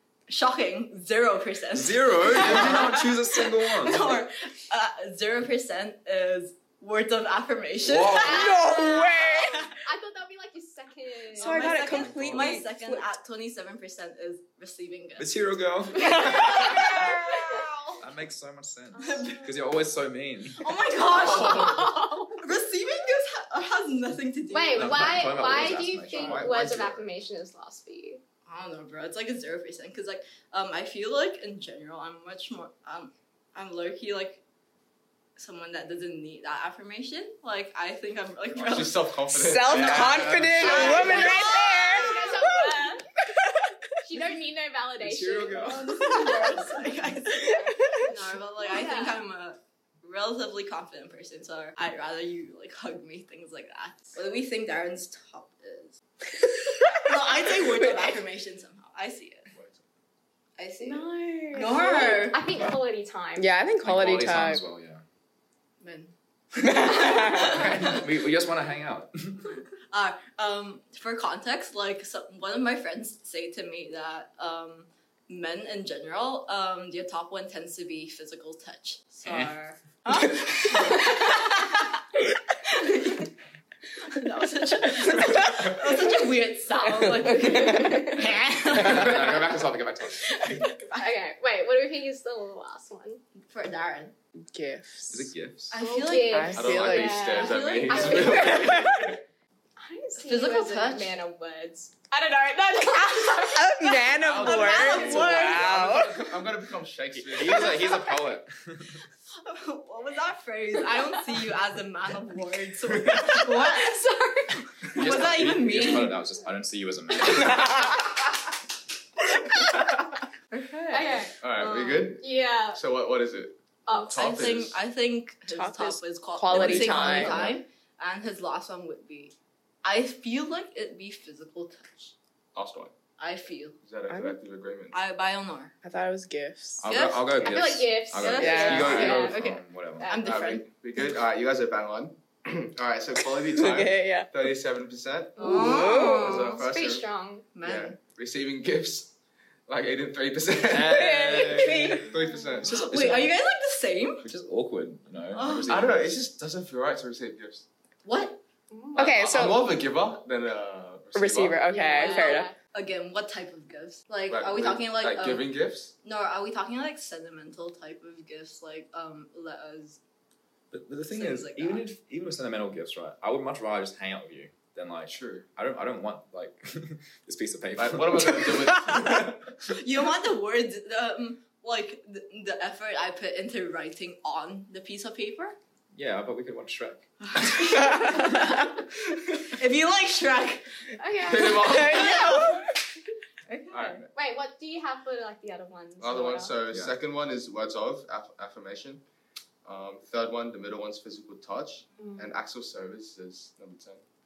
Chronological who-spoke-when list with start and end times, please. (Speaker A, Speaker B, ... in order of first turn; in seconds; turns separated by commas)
Speaker A: 0.3-9.7, Speaker B: 1.7-4.2, Speaker B: 7.8-8.5, Speaker C: 8.2-9.6, Speaker D: 8.2-11.9, Speaker C: 11.3-13.1, Speaker A: 11.3-15.4, Speaker E: 11.9-12.5, Speaker B: 15.2-16.5, Speaker A: 15.9-18.0, Speaker C: 15.9-17.1, Speaker D: 16.1-17.6, Speaker B: 18.0-20.6, Speaker D: 18.9-19.9, Speaker A: 18.9-19.5, Speaker A: 20.6-25.3, Speaker D: 21.0-22.5, Speaker E: 21.1-21.8, Speaker D: 24.5-28.2, Speaker B: 24.7-26.9, Speaker E: 25.5-27.1, Speaker A: 28.5-34.4, Speaker A: 35.4-39.0, Speaker E: 38.6-41.1, Speaker C: 39.3-42.9, Speaker B: 39.5-41.3, Speaker A: 40.6-42.3, Speaker D: 40.6-43.1, Speaker D: 44.0-46.2, Speaker B: 45.0-46.0, Speaker A: 45.5-56.0, Speaker C: 47.4-48.0, Speaker D: 48.6-49.2, Speaker A: 56.9-59.5, Speaker E: 59.5-59.8, Speaker A: 60.6-62.5, Speaker D: 60.8-63.5, Speaker C: 63.4-64.6, Speaker B: 63.8-65.0, Speaker A: 65.8-68.0, Speaker C: 66.6-67.6, Speaker B: 67.2-69.5, Speaker A: 69.4-81.9, Speaker B: 79.2-79.5, Speaker D: 80.7-81.4, Speaker A: 82.7-83.3, Speaker A: 84.0-89.7, Speaker C: 87.0-88.2, Speaker B: 88.2-90.7, Speaker A: 90.2-91.2, Speaker D: 91.0-93.2, Speaker A: 93.4-94.1, Speaker C: 94.5-95.3, Speaker B: 95.1-95.8, Speaker A: 95.7-98.8, Speaker D: 95.7-98.9, Speaker C: 96.3-97.3, Speaker E: 96.5-99.2, Speaker C: 98.5-99.1, Speaker D: 99.8-105.5, Speaker A: 100.2-101.2, Speaker C: 103.0-106.5, Speaker E: 104.2-107.8, Speaker A: 104.4-105.7, Speaker B: 107.1-109.0, Speaker A: 109.3-114.0, Speaker D: 113.2-114.6, Speaker A: 114.8-116.2, Speaker B: 114.9-118.0, Speaker A: 120.5-122.1, Speaker D: 120.9-121.3, Speaker E: 121.4-124.8, Speaker D: 122.2-122.8, Speaker D: 123.9-124.5, Speaker A: 124.1-132.1, Speaker C: 125.5-127.4, Speaker B: 126.5-127.5, Speaker E: 132.5-132.9, Speaker A: 133.2-133.8, Speaker E: 133.8-134.9, Speaker C: 134.1-134.4, Speaker A: 134.9-135.7, Speaker C: 135.8-136.8, Speaker B: 136.8-140.1, Speaker A: 136.8-137.6, Speaker D: 137.4-139.4, Speaker A: 138.2-140.7, Speaker C: 138.4-139.3, Speaker D: 140.0-140.4, Speaker E: 140.2-147.1, Speaker C: 143.4-144.3, Speaker A: 145.4-146.6, Speaker C: 145.4-146.4, Speaker D: 145.8-147.6, Speaker A: 147.5-148.0, Speaker E: 147.6-149.1, Speaker E: 149.7-152.8, Speaker B: 150.7-152.1, Speaker C: 150.8-152.1, Speaker D: 151.9-152.8, Speaker A: 152.6-154.2, Speaker B: 152.7-153.3, Speaker B: 154.2-156.1, Speaker A: 155.3-155.8, Speaker E: 155.7-157.6, Speaker A: 158.0-158.4, Speaker D: 158.7-159.1, Speaker C: 158.9-159.6, Speaker E: 158.9-161.7, Speaker C: 161.1-162.5, Speaker D: 161.7-162.6, Speaker A: 161.9-165.5, Speaker E: 164.3-165.9, Speaker A: 166.0-170.0, Speaker B: 170.7-178.7, Speaker A: 171.1-171.9, Speaker E: 175.1-175.4, Speaker E: 177.8-179.5, Speaker A: 179.6-185.6, Speaker B: 185.9-187.1, Speaker A: 187.3-188.7, Speaker C: 187.9-188.2, Speaker A: 189.5-190.8, Speaker D: 191.0-192.0, Speaker E: 191.2-192.4, Speaker C: 191.5-192.8, Speaker A: 191.8-192.6, Speaker A: 193.5-194.0, Speaker E: 193.7-194.1, Speaker D: 194.1-196.6, Speaker E: 196.0-199.0, Speaker B: 196.7-196.9, Speaker E: 199.6-204.0, Speaker D: 202.0-202.4